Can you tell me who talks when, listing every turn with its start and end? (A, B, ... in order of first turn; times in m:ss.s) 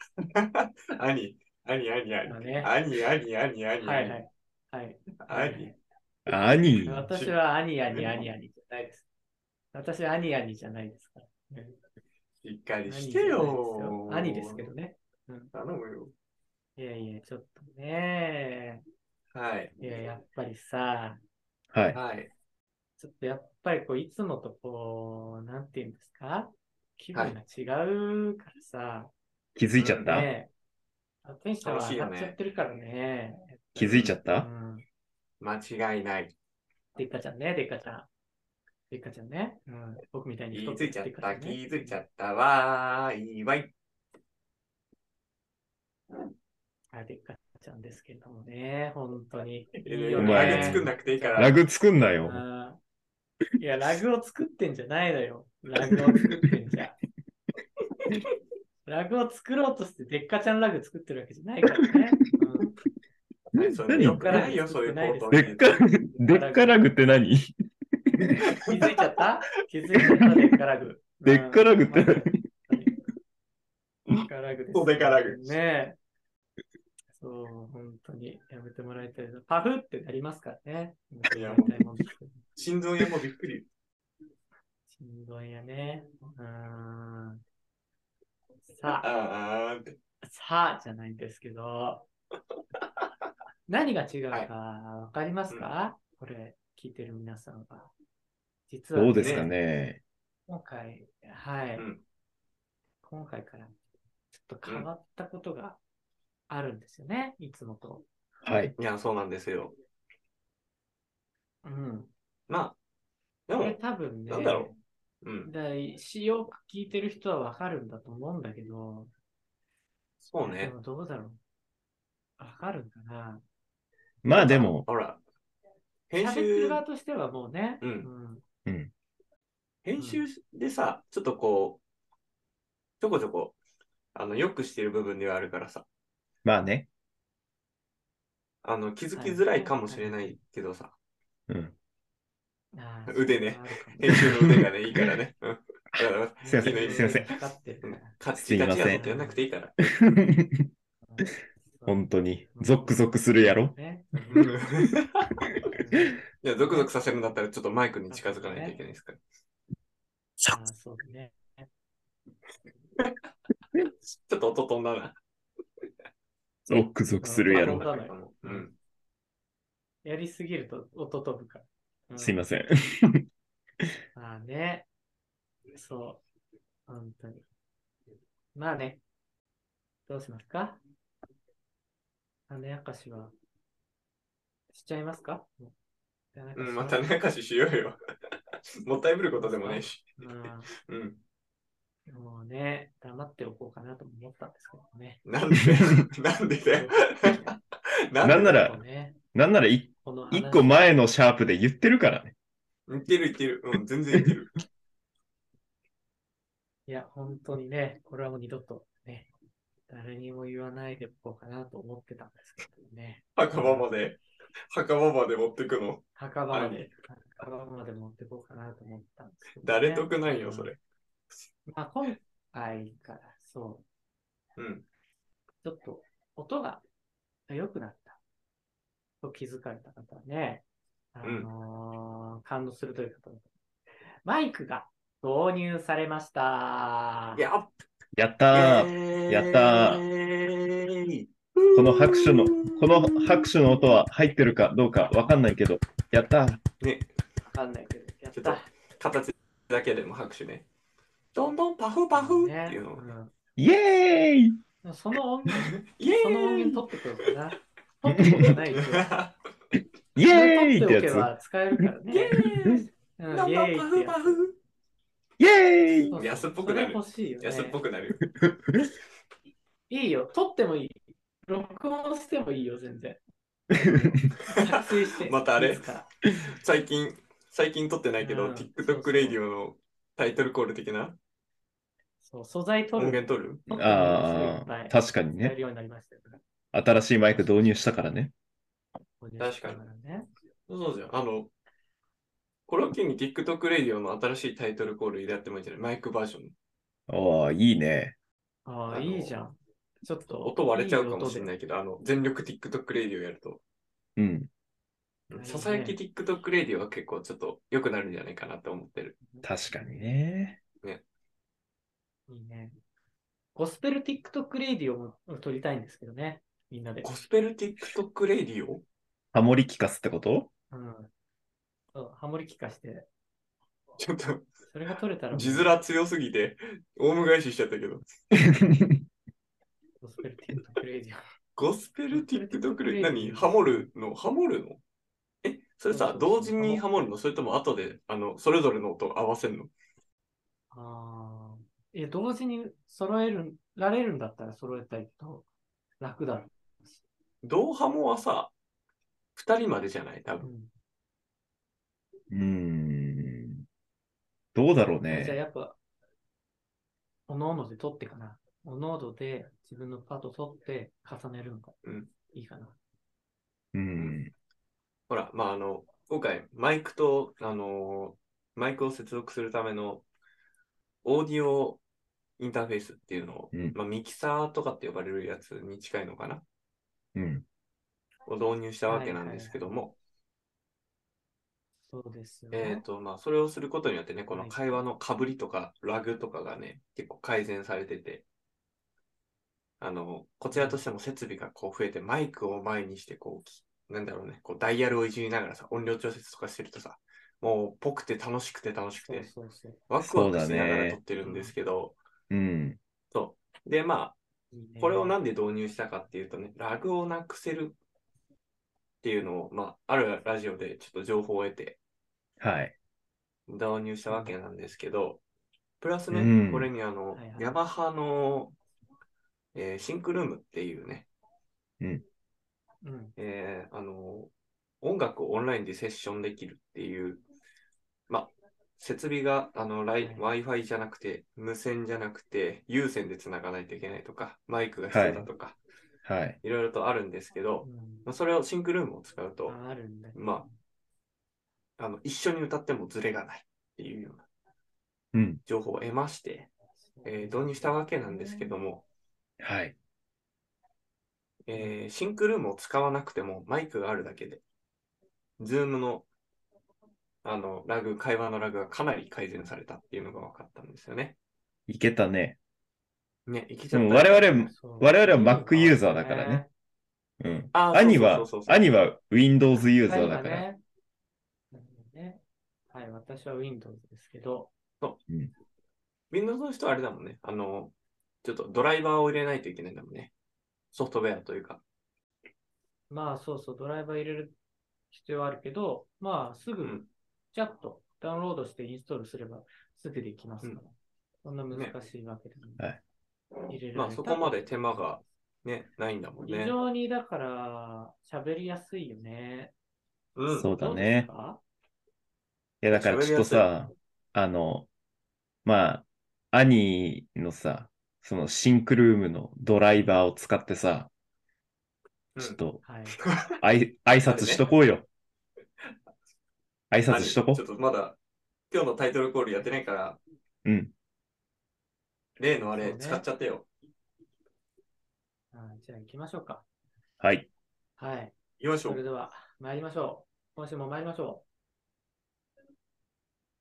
0:00.2-0:04.2 A
0:02.3-0:02.7 B
0:03.8-0:05.7 B
0:05.2-0:05.7 A
0:06.3-0:07.1 C
0:06.8-0:09.0 B
0:07.9-0:08.3 A
0:09.7-0:11.8 B
0:12.4-0:14.7 A
0:12.9-0:15.5 B
0:15.5-0:16.1 A
0:16.8-0:18.8 B
0:19.3-0:19.8 A
0:19.8-0:21.2 B
0:21.7-0:22.0 C
0:21.9-0:22.3 A
0:23.0-0:29.1 B
0:29.6-0:30.3 C
0:29.8-0:30.2 A
0:29.9-0:30.5 B
0:31.2-0:34.9 B
0:31.6-0:32.4 A
0:33.8-0:34.5 C
0:35.4-0:36.3 A
0:37.0-0:38.1 B
0:38.9-0:42.0 B
0:40.5-0:43.7 A
0:46.9-0:51.6 B
0:49.8-0:51.5 A
0:50.2-0:52.4 C
0:52.2-0:52.8 B
0:53.6-0:57.0 B
0:58.9-1:02.8 B
1:03.5-1:05.8 A
1:03.9-1:04.5 C
1:04.0-1:06.9 B
1:05.3-1:07.5 C
1:08.2-1:08.4 C
1:08.6-1:12.9 B
1:10.0-1:10.2 C
1:11.2-1:12.3 C
1:14.2-1:16.0 B
1:14.7-1:15.6 A
1:17.2-1:22.4 B
1:21.3-1:21.7 A
1:22.6-1:23.7 A
1:24.9-1:27.4 B
1:28.7-1:29.1 B
1:28.9-1:30.0 A
1:30.2-1:32.1 B
1:33.7-1:37.9 B
1:38.7-1:39.5 B
1:39.0-1:40.0 C
1:39.2-1:39.5 A
1:40.5-1:41.9 B
1:43.0-1:43.7 B
1:44.3-1:45.8 B
1:46.5-1:48.1 B
1:48.4-1:48.7 C
1:48.8-1:49.8 A
1:51.6-1:52.1 B
1:52.5-1:52.8 A
1:53.5-1:54.7 A
1:53.5-1:54.8 B
1:55.2-1:55.5 A
1:55.5-1:59.1 B
2:00.2-2:00.7 A
2:00.4-2:01.4 B
2:02.4-2:03.4 B
2:04.2-2:04.9 C
2:04.3-2:05.2 A
2:06.1-2:06.8 A
2:06.2-2:08.4 B
2:07.8-2:08.1 A
2:08.7-2:08.9 C
2:09.8-2:11.8 A
2:13.0-2:13.6 A
2:14.1-2:15.8 A
2:16.4-2:16.9 C
2:18.6-2:20.9 A
2:19.2-2:20.4 B
2:21.5-2:21.8 C
2:22.7-2:24.2 B
2:23.1-2:29.8 A
2:24.2-2:25.1 C
2:25.9-2:27.3 C
2:26.4-2:28.2 B
2:28.4-2:29.0 C
2:28.8-2:29.4 B
2:29.8-2:30.7 C
2:31.0-2:34.5 B
2:31.9-2:33.8 C
2:34.3-2:35.3 A
2:35.8-2:36.9 B
2:36.4-2:39.2 A
2:38.1-2:38.8 B
2:40.5-2:41.7 B
2:44.2-2:45.2 A
2:46.7-2:47.9 C
2:47.2-2:48.7 B
2:47.5-2:48.7 A
2:50.0-2:52.4 B
2:52.2-2:53.2 C
2:54.2-2:54.9 B
2:55.7-2:56.2 B
2:56.9-2:57.4 B
2:58.6-2:59.0 B
3:00.1-3:00.8 B
3:02.5-3:03.3 B
3:04.7-3:05.7 B
3:06.3-3:07.0 B
3:06.6-3:08.0 A
3:08.8-3:10.2 A
3:09.4-3:10.7 B
3:10.8-3:11.2 A
3:12.1-3:15.2 B
3:15.2-3:17.6 A
3:16.7-3:17.0 B
3:18.1-3:18.6 A
3:18.2-3:18.8 C
3:18.4-3:19.2 B
3:19.3-3:22.3 C
3:20.0-3:20.9 B
3:22.9-3:24.6 A
3:26.9-3:29.3 B
3:29.9-3:34.2 B
3:33.4-3:34.2 A
3:34.7-3:36.9 A
3:36.2-3:40.7 B
3:39.6-3:40.8 A
3:41.7-3:43.8 B
3:44.6-3:44.8 A
3:45.6-3:46.8 B
3:47.5-3:48.2 B
3:49.2-3:53.5 B
3:51.2-3:51.5 A
3:54.2-3:57.4 B
3:57.4-3:57.7 A
3:58.2-4:00.0 C
3:58.5-4:03.8 A
4:01.7-4:06.6 C
4:06.8-4:07.1 A
4:07.5-4:08.7 B
4:08.4-4:10.6 A
4:11.4-4:13.1 A
4:12.1-4:13.3 B
4:13.6-4:14.6 C
4:14.8-4:19.2 B
4:15.7-4:16.9 A
4:18.1-4:18.6 C
4:18.7-4:19.3 A
4:20.2-4:21.9 C
4:20.3-4:22.5 B
4:22.1-4:24.5 A
4:23.2-4:24.4 B
4:25.4-4:26.2 C
4:25.9-4:27.8 B
4:26.2-4:28.2 A
4:28.4-4:28.9 C
4:29.9-4:33.2 B
4:33.8-4:34.2 C
4:33.8-4:36.1 B
4:34.4-4:35.9 A
4:36.5-4:41.2 A
4:38.2-4:39.4 B
4:42.2-4:46.4 B
4:43.0-4:43.8 A
4:43.8-4:45.6 C
4:46.7-4:48.3 C
4:47.3-4:47.7 B
4:49.2-4:50.3 B
4:49.4-4:49.8 A
4:50.7-4:51.5 A
4:52.7-4:56.5 A
4:57.1-4:58.1 C
4:58.7-5:01.5 B
4:58.9-4:59.4 A
5:00.4-5:03.6 A
5:04.2-5:04.5 C
5:05.3-5:09.2 A
5:05.3-5:06.0 B
5:09.3-5:09.9 B
5:09.4-5:10.6 C
5:12.3-5:12.8 B
5:13.6-5:17.1 B
5:17.0-5:18.8 A
5:19.3-5:20.5 C
5:20.7-5:21.1 B
5:21.9-5:23.1 B
5:24.0-5:24.5 A
5:24.7-5:25.7 B
5:25.3-5:28.0 A
5:28.4-5:29.0 C
5:30.0-5:31.2 B
5:31.6-5:34.8 A
5:32.1-5:33.9 B
5:35.4-5:39.7 A
5:35.9-5:37.2 B
5:40.7-5:45.5 B
5:46.0-5:46.9 B
5:47.4-5:48.5 A
5:49.4-5:50.5 A
5:50.4-5:50.7 B
5:52.3-5:53.6 C
5:54.6-5:55.4 C
5:55.1-5:55.8 B
5:57.3-6:02.8 B
6:01.8-6:02.1 A
6:03.7-6:04.3 C
6:05.1-6:10.0 A
6:11.0-6:11.8 A
6:12.4-6:16.4 A
6:17.2-6:17.4 C
6:18.3-6:19.9 A
6:18.9-6:19.8 B
6:21.9-6:22.8 B
6:22.5-6:28.2 A
6:24.3-6:24.9 B
6:29.8-6:39.3 A
6:30.5-6:30.8 B
6:39.0-6:39.8 B
6:39.9-6:42.0 A
6:40.0-6:41.0 C
6:41.2-6:41.6 B
6:42.3-6:42.8 C
6:43.1-6:44.2 A
6:44.5-6:45.2 B
6:44.8-6:47.8 A
6:49.0-6:51.8 A
6:52.4-6:52.7 C
6:53.5-6:55.2 A
6:54.1-6:54.3 B
6:55.8-6:58.6 A
6:56.1-6:56.7 C
6:57.2-6:57.6 B
6:59.5-7:01.1 A
7:02.8-7:03.2 B
7:03.2-7:07.2 A
7:08.1-7:15.6 A
7:14.9-7:15.3 C
7:16.0-7:16.4 C
7:16.4-7:19.6 A
7:17.6-7:18.1 B
7:19.5-7:20.3 B
7:20.1-7:20.5 A
7:21.8-7:24.2 A
7:25.1-7:25.4 C
7:25.5-7:26.5 A
7:27.0-7:28.5 B
7:27.0-7:28.8 A
7:29.4-7:29.8 C
7:31.5-7:34.4 A
7:35.4-7:36.1 A
7:37.2-7:41.2 A
7:41.7-7:42.4 C
7:43.3-7:44.5 A
7:43.7-7:46.4 C
7:44.5-7:46.5 B
7:47.2-7:50.4 C
7:47.5-7:48.7 A
7:49.8-7:50.6 B
7:51.5-7:54.5 B
7:56.1-8:00.1 A
8:00.7-8:01.6 A
8:02.9-8:04.4 B
8:04.9-8:12.6 B
8:06.6-8:06.9 A
8:13.5-8:14.9 B
8:13.7-8:16.6 A
8:16.2-8:19.5 B
8:20.2-8:20.5 A
8:20.3-8:21.1 C
8:20.6-8:21.4 B
8:22.6-8:24.7 C
8:22.7-8:23.5 A
8:25.4-8:30.9 C
8:32.2-8:32.6 C
8:32.6-8:33.0 B
8:33.0-8:33.3 A
8:33.4-8:34.9 C
8:34.1-8:34.4 A
8:36.7-8:37.4 C
8:36.9-8:38.0 A
8:38.5-8:40.0 A
8:40.4-8:40.7 C
8:42.2-8:43.5 A
8:42.3-8:43.0 B
8:45.3-8:46.4 B
8:47.0-8:47.3 C
8:47.8-8:51.2 B
8:48.4-8:48.8 A